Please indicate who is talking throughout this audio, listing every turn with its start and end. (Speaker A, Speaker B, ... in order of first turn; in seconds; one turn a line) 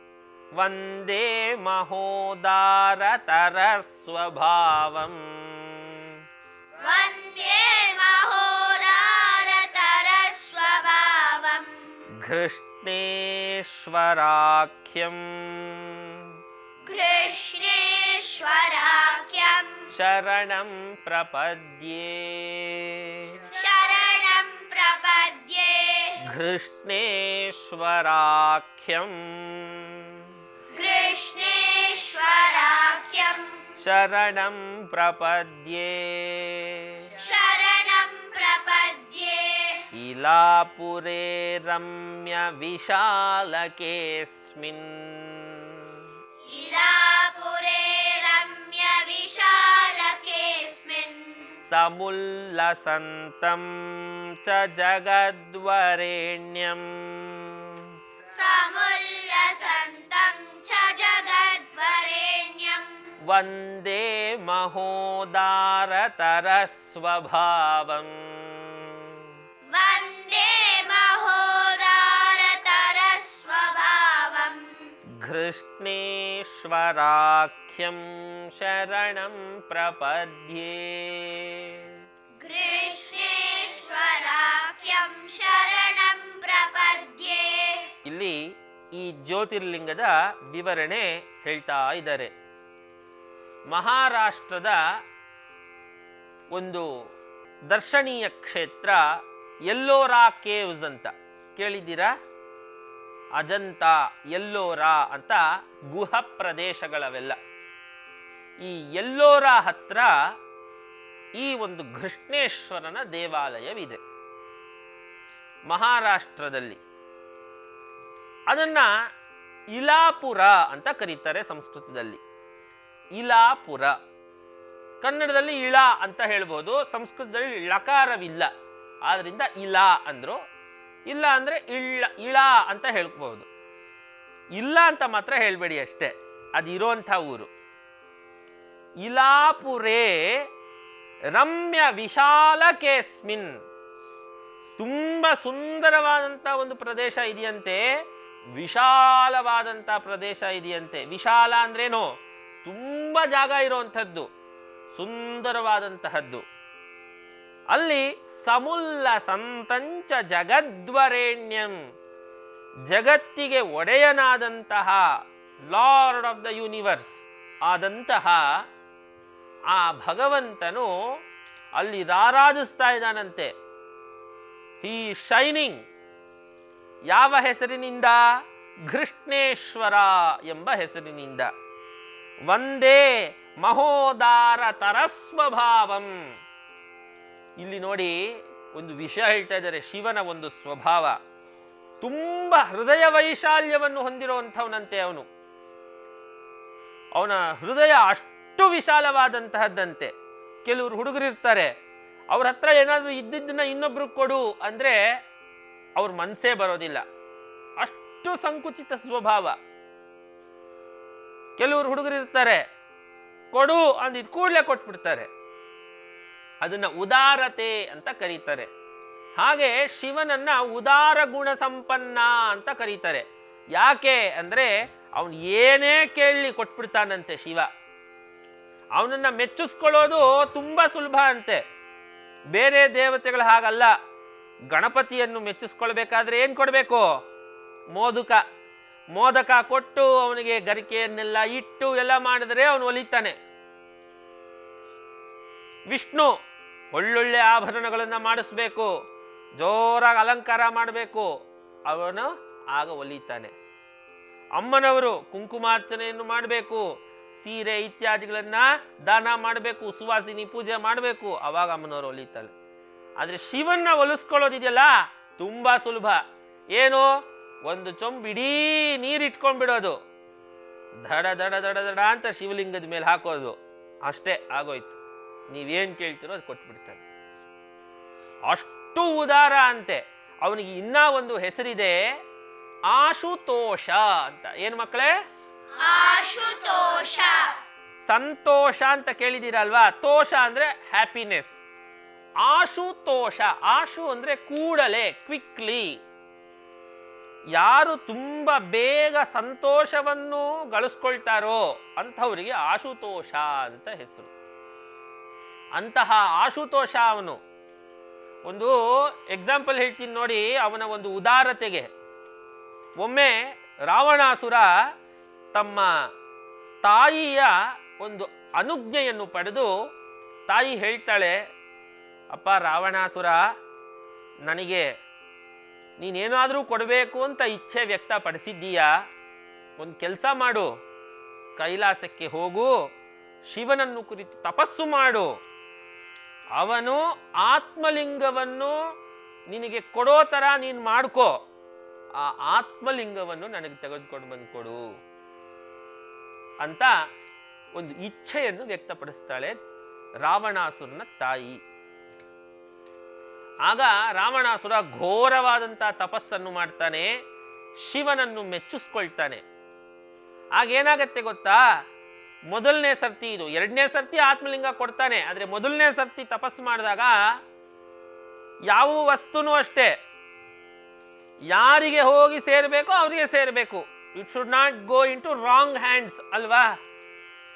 Speaker A: 0.5-6.2
Speaker B: 6.8-11.8
Speaker A: 12.2-16.4
Speaker B: 16.9-19.9
Speaker A: 19.9-23.4
Speaker B: 23.5-26.2
Speaker A: 26.2-30.3
Speaker B: 30.7-33.5
Speaker A: 33.8-37.1
Speaker B: 37.1-39.9
Speaker A: 39.9-46.0
Speaker B: 46.5-51.5
Speaker A: 51.7-57.9
Speaker B: 58.2-63.0
Speaker A: 63.2-69.3
Speaker B: 69.7-74.7
Speaker A: 75.2-82.0
Speaker B: 82.4-87.9
Speaker A: 88.0-88.4
Speaker A: 88.9-92.3
Speaker A: 93.7-94.8
Speaker A: 96.5-96.9
Speaker A: 97.7-99.0
Speaker A: 99.7-102.1
Speaker A: 103.4-107.4
Speaker A: 108.6-110.1
Speaker A: 111.4-114.0
Speaker A: 115.7-116.8
Speaker A: 118.5-118.9
Speaker A: 119.7-122.2
Speaker A: 123.2-124.0
Speaker A: 125.0-128.5
Speaker A: 129.1-130.4
Speaker A: 131.1-133.5
Speaker A: 134.6-137.5
Speaker A: 139.0-140.5
Speaker A: 141.3-143.5
Speaker A: 144.8-147.8
Speaker A: 148.6-152.1
Speaker A: 152.6-154.3
Speaker A: 154.9-156.4
Speaker A: 157.7-161.8
Speaker A: 162.9-165.1
Speaker A: 165.7-168.4
Speaker A: 169.7-170.9
Speaker A: 171.8-173.5
Speaker A: 174.8-175.8
Speaker A: 177.1-178.2
Speaker A: 178.9-181.5
Speaker A: 182.5-186.1
Speaker A: 187.6-188.2
Speaker A: 188.7-191.2
Speaker A: 192.0-195.3
Speaker A: 197.1-200.1
Speaker A: 200.6-201.7
Speaker A: 202.3-205.0
Speaker A: 206.0-207.0
Speaker A: 207.8-209.6
Speaker A: 211.6-212.6
Speaker A: 213.5-215.3
Speaker A: 216.6-218.7
Speaker A: 219.4-227.7
Speaker A: 229.0-231.6
Speaker A: 232.5-233.9
Speaker A: 234.7-237.1
Speaker A: 237.9-238.4
Speaker A: 239.1-243.4
Speaker A: 245.9-246.3
Speaker A: 246.9-248.9
Speaker A: 249.6-251.3
Speaker A: 251.9-253.5
Speaker A: 254.6-256.9
Speaker A: 257.4-262.5
Speaker A: 263.2-266.2
Speaker A: 266.7-267.1
Speaker A: 267.6-270.0
Speaker A: 271.1-275.0
Speaker A: 275.5-277.0
Speaker A: 278.5-282.0
Speaker A: 282.9-285.1
Speaker B: 285.8-287.6
Speaker A: 288.0-291.6
Speaker A: 292.4-295.9
Speaker A: 297.6-304.3
Speaker A: 305.8-307.4
Speaker A: 308.4-311.9
Speaker A: 313.0-314.7
Speaker A: 315.5-315.9
Speaker A: 316.8-319.7
Speaker A: 320.5-321.4
Speaker A: 322.3-323.4
Speaker A: 324.5-324.9
Speaker A: 326.0-328.9
Speaker A: 329.8-330.7
Speaker A: 331.6-332.7
Speaker A: 333.4-335.3
Speaker A: 336.6-338.8
Speaker A: 339.5-341.4
Speaker A: 342.1-344.8
Speaker A: 346.6-346.9
Speaker A: 347.7-349.6
Speaker A: 350.2-351.6
Speaker A: 353.6-357.1
Speaker A: 357.8-359.4
Speaker A: 360.6-361.6
Speaker A: 362.5-367.2
Speaker A: 368.7-369.9
Speaker A: 371.5-376.7